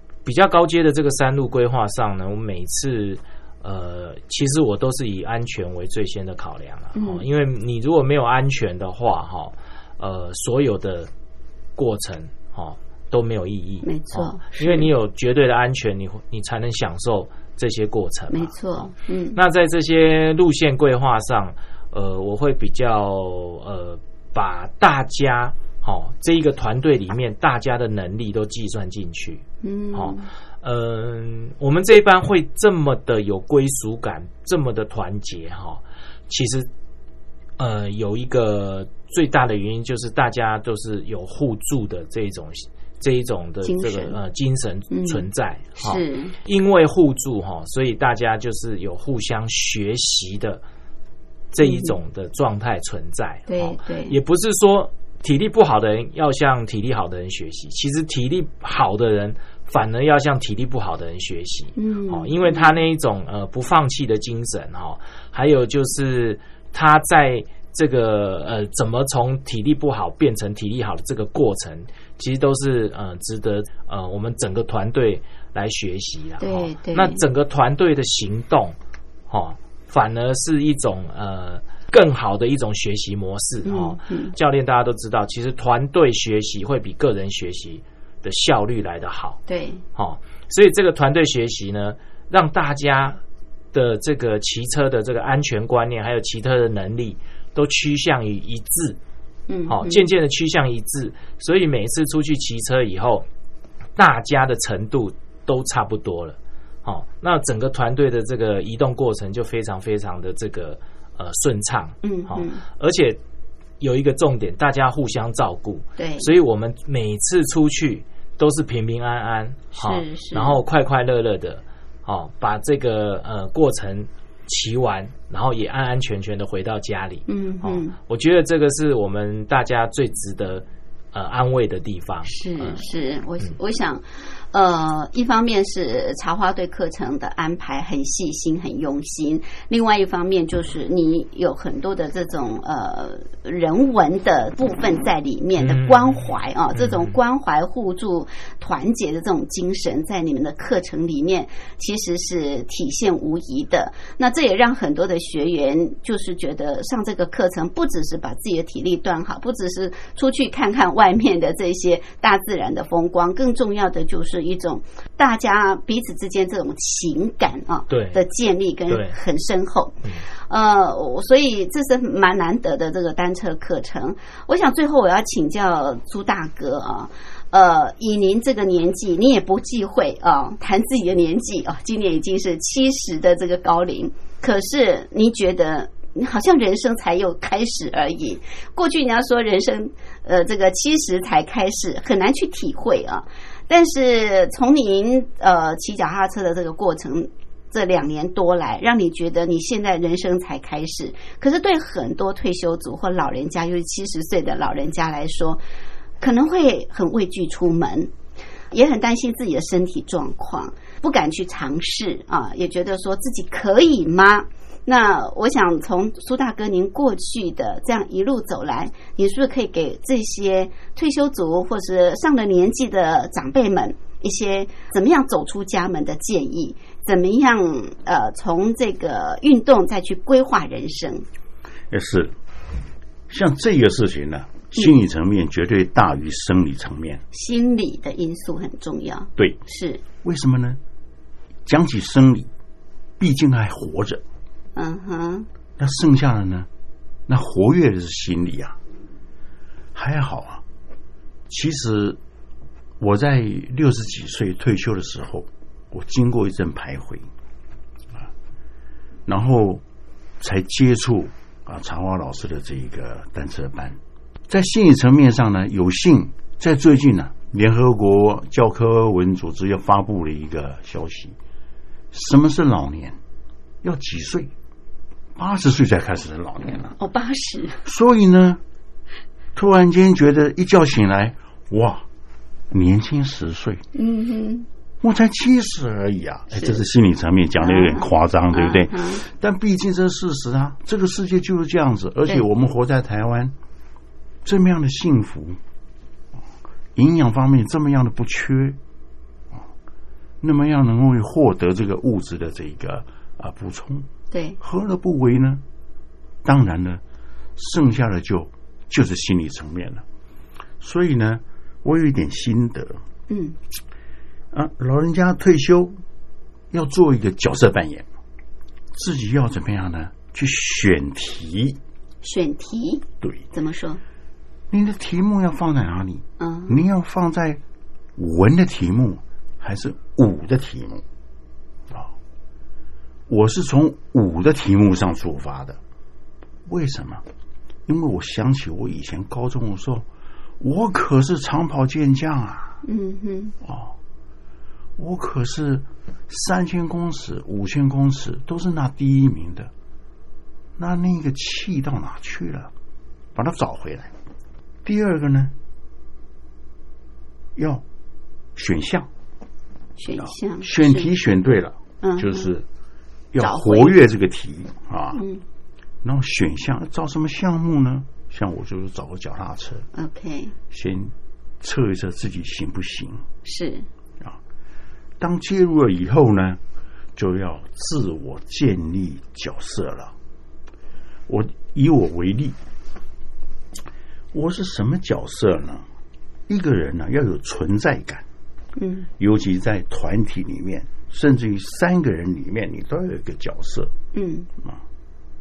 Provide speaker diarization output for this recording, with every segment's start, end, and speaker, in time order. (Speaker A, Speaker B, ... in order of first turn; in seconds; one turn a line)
Speaker A: 0.2-11.1
Speaker B: 6.9-7.2
Speaker A: 11.8-36.7
Speaker B: 13.8-14.9
Speaker B: 18.3-19.4
Speaker B: 29.6-30.3
Speaker A: 37.6-50.6
Speaker B: 43.6-44.2
Speaker B: 44.9-45.2
Speaker B: 45.8-46.4
Speaker A: 51.5-78.8
Speaker B: 51.6-51.9
Speaker B: 53.5-54.2
Speaker B: 61.8-62.7
Speaker B: 76.4-77.2
Speaker A: 79.3-89.4
Speaker B: 83.6-84.3
Speaker B: 89.5-89.8
Speaker A: 90.0-93.2
Speaker A: 93.7-99.0
Speaker B: 99.5-100.0
Speaker A: 99.7-103.2
Speaker A: 104.0-113.2
Speaker B: 112.0-112.6
Speaker A: 113.8-132.8
Speaker B: 116.0-116.3
Speaker B: 119.7-120.6
Speaker B: 127.3-127.9
Speaker B: 132.2-169.9
Speaker A: 145.6-147.1
Speaker A: 167.9-168.2
Speaker A: 168.9-169.2
Speaker B: 170.5-205.6
Speaker B: 206.2-208.1
Speaker B: 208.7-231.2
Speaker C: 231.9-232.3
Speaker C: 233.3-237.2
Speaker B: 237.3-240.0
Speaker C: 240.2-240.8
Speaker C: 241.7-242.5
Speaker C: 243.2-244.2
Speaker B: 244.8-245.5
Speaker C: 245.8-246.7
Speaker C: 247.3-248.8
Speaker C: 249.9-250.6
Speaker C: 251.5-252.2
Speaker C: 253.0-257.3
Speaker C: 259.3-259.8
Speaker C: 260.4-271.4
Speaker C: 272.1-273.2
Speaker C: 273.8-274.5
Speaker C: 275.4-276.9
Speaker B: 277.0-277.9
Speaker C: 277.8-278.6
Speaker C: 279.5-282.0
Speaker C: 282.7-283.8
Speaker B: 283.9-284.7
Speaker C: 285.0-293.5
Speaker B: 286.5-286.8
Speaker B: 287.6-289.2
Speaker C: 294.4-295.6
Speaker C: 296.9-298.8
Speaker C: 300.4-304.1
Speaker B: 304.3-304.6
Speaker C: 304.6-305.6
Speaker C: 306.4-307.0
Speaker C: 307.6-310.0
Speaker C: 310.8-313.0
Speaker B: 313.3-313.6
Speaker C: 314.5-316.0
Speaker C: 316.7-318.1
Speaker C: 318.9-321.8
Speaker B: 322.2-324.0
Speaker C: 324.7-327.6
Speaker B: 326.4-326.8
Speaker C: 328.2-331.0
Speaker C: 333.3-335.8
Speaker C: 336.7-337.2
Speaker C: 337.9-340.1
Speaker C: 340.6-342.8
Speaker B: 342.8-343.5
Speaker C: 343.6-343.9
Speaker C: 345.0-349.7
Speaker C: 350.8-352.7
Speaker C: 353.3-354.1
Speaker C: 354.8-355.5
Speaker C: 357.6-357.8
Speaker C: 358.6-359.1
Speaker B: 360.0-361.1
Speaker C: 360.1-362.6
Speaker B: 362.0-362.5
Speaker C: 363.3-365.2
Speaker B: 363.4-363.9
Speaker B: 365.1-365.4
Speaker C: 366.0-369.8
Speaker B: 369.9-370.5
Speaker C: 370.7-373.2
Speaker B: 373.4-373.9
Speaker C: 375.2-376.6
Speaker C: 377.1-380.1
Speaker C: 381.3-382.6
Speaker C: 384.3-385.8
Speaker C: 386.5-388.2
Speaker B: 388.7-389.1
Speaker C: 389.2-393.9
Speaker B: 394.1-394.5